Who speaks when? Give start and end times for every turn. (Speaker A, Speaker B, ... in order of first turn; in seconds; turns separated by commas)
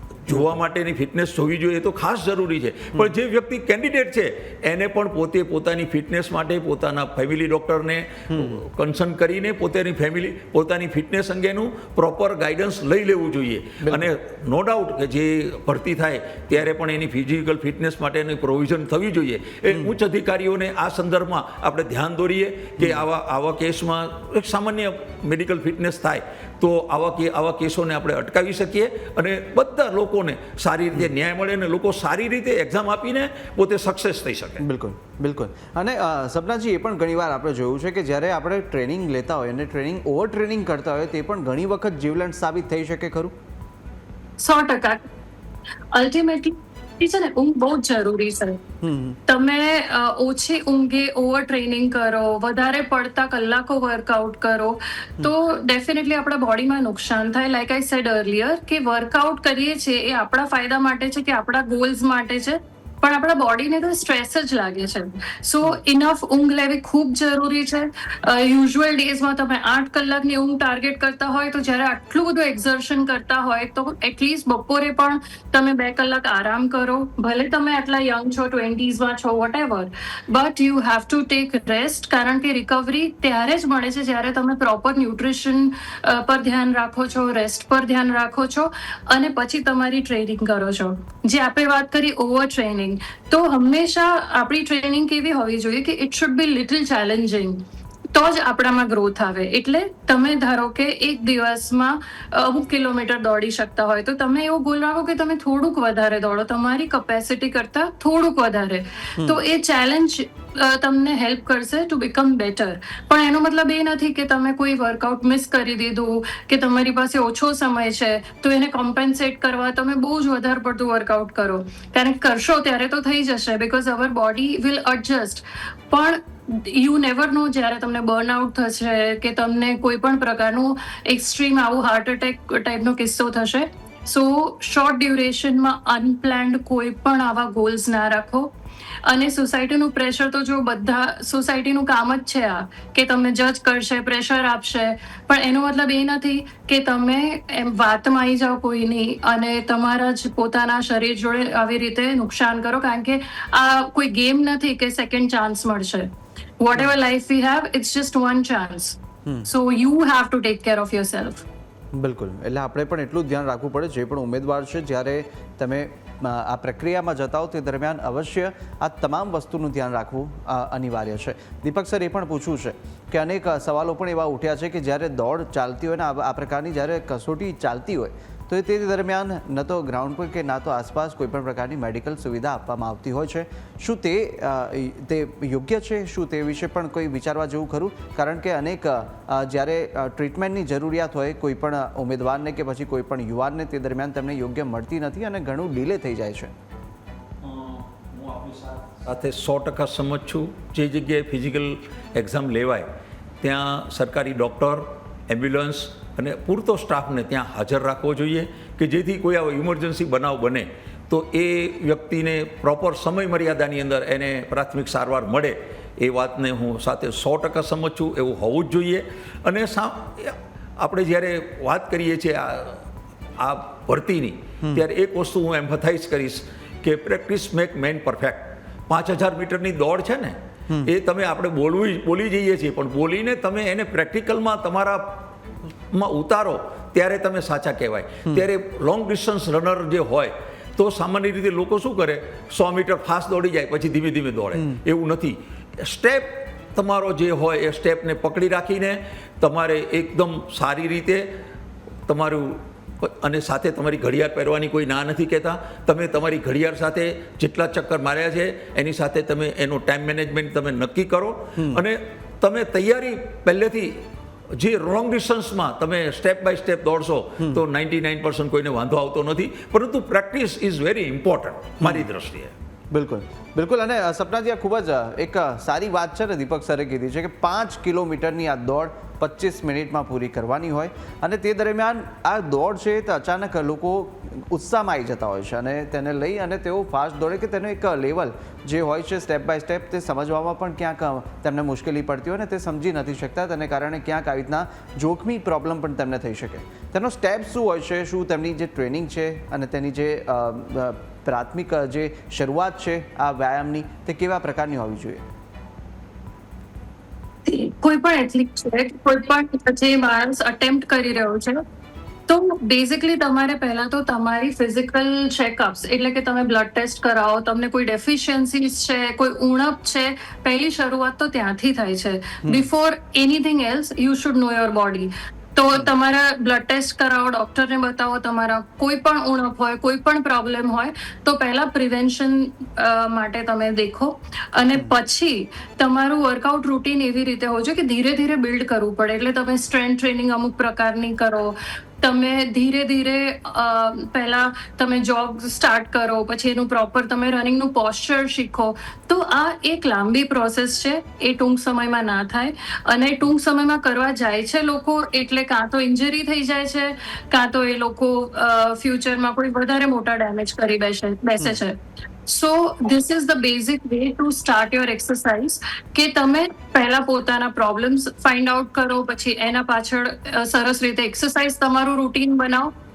Speaker A: 0.2-34.6, Speaker B: 8.3-8.6, Speaker B: 13.8-14.1, Speaker B: 22.8-23.0, Speaker B: 34.6-43.3, Speaker C: 44.4-45.0, Speaker C: 45.9-48.6, Speaker B: 48.8-49.2, Speaker C: 49.3-138.5, Speaker B: 109.2-109.4, Speaker C: 139.0-161.4, Speaker B: 161.9-196.5, Speaker A: 197.4-202.9, Speaker A: 203.4-222.8, Speaker A: 223.4-235.3, Speaker A: 235.9-251.3, Speaker B: 244.5-244.8, Speaker A: 252.1-264.0, Speaker B: 261.6-261.8, Speaker A: 264.5-272.5, Speaker B: 271.8-272.1, Speaker B: 272.9-305.2, Speaker C: 307.4-311.6, Speaker C: 312.3-372.7